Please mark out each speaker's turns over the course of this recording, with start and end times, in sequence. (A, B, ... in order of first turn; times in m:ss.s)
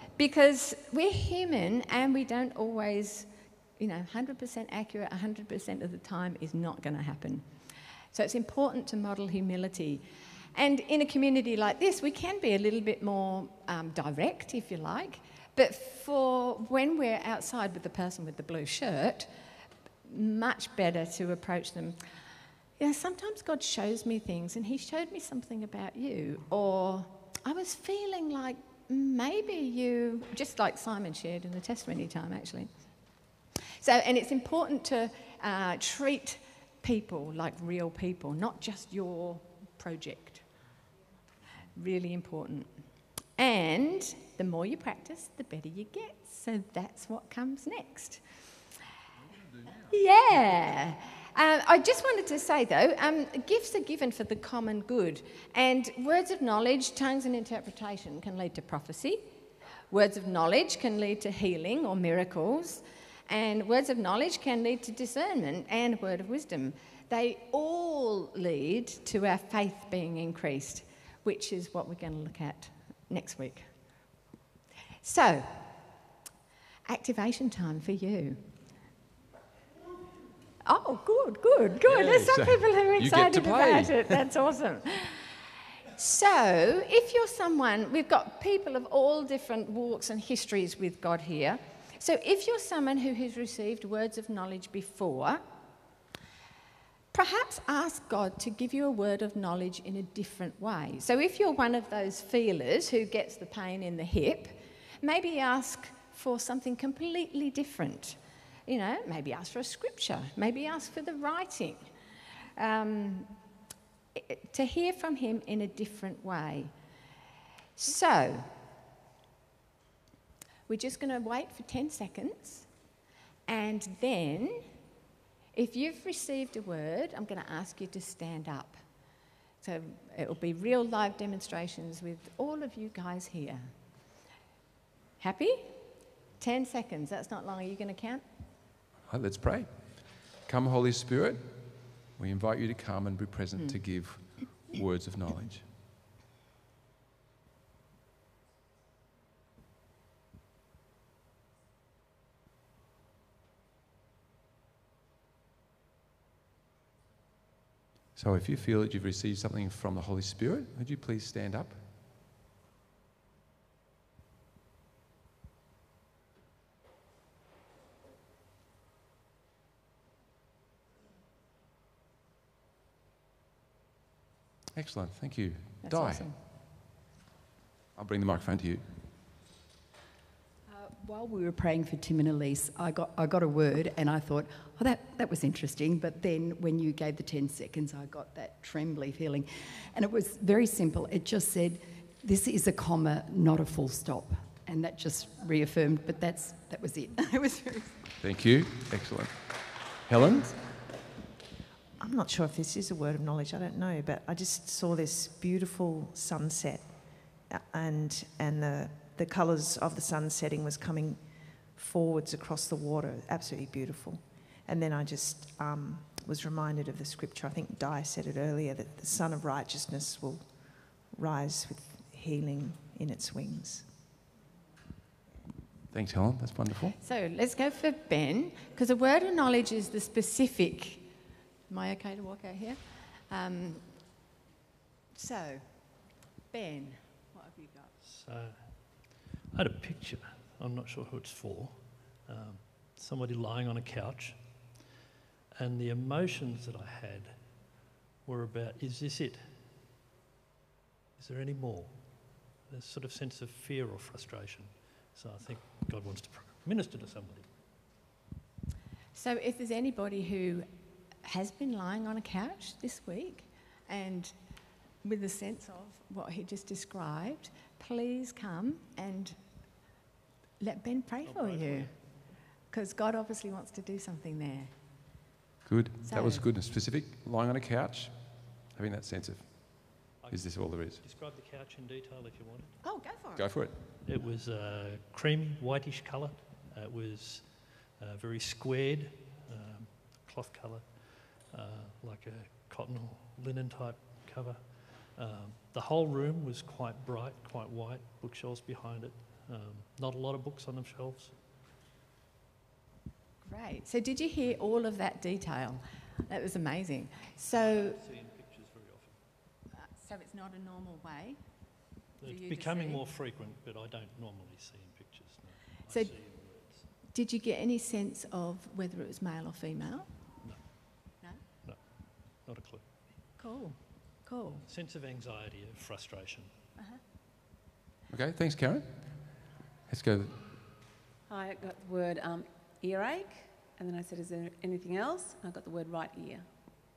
0:00.2-0:07.4 A
0:08.1-0:19.3 A
0:20.0-0:22.0 A
0:22.8-0:32.7 A
0:33.8-0:40.4 A
0:41.8-0:42.7 A
0:43.4-0:48.2 A
0:49.9-0:59.2 A
0:59.9-1:13.7 A
1:15.0-1:15.7 A
1:16.9-1:18.4 A
1:20.6-1:25.4 A
1:21.9-1:24.2 B
1:25.9-1:35.4 A
1:37.1-1:51.9 A
1:52.6-1:53.3 A
1:54.1-1:56.7 A
1:57.8-1:58.5 A
2:00.7-2:02.7 A
2:03.5-2:04.6 A
2:05.5-2:08.8 A
2:09.6-2:13.7 A
2:15.2-2:15.8 A
2:16.4-2:18.2 A
2:19.1-2:25.7 B
2:38.2-2:41.8 B
2:54.8-2:56.3 B
2:55.8-2:56.4 A
2:58.0-2:58.8 B
3:00.7-3:18.1 C
3:18.2-3:20.5 B
3:22.0-3:43.9 D
3:45.9-3:47.0 B
3:47.0-3:51.0 A
3:51.7-3:53.8 A
3:55.2-3:55.7 A
3:56.5-3:57.9 A
3:58.1-4:04.8 E
4:05.6-4:07.7 E
4:08.2-4:09.7 E
4:11.2-4:17.5 E
4:19.1-4:20.7 A
4:21.2-4:24.4 A
4:25.0-4:29.4 A
4:30.6-4:32.1 A
4:31.2-4:32.3 E
4:32.7-4:34.7 A
4:35.7-4:41.0 B
4:36.1-4:36.5 A
4:40.2-4:42.8 E
4:42.8-4:43.5 A
4:43.4-4:43.7 B
4:44.0-5:01.4 E
5:03.4-5:08.0 A
5:07.5-5:09.2 E
5:09.8-5:11.4 A
5:12.2-5:16.9 E
5:12.2-5:13.0 A
5:15.9-5:16.2 A
5:17.1-5:20.1 A
5:20.4-5:21.0 E
5:21.6-5:22.8 E
5:23.4-5:24.6 A
5:24.6-5:26.5 E
5:28.1-5:29.4 B
5:29.9-5:30.4 B
5:31.3-5:36.5 F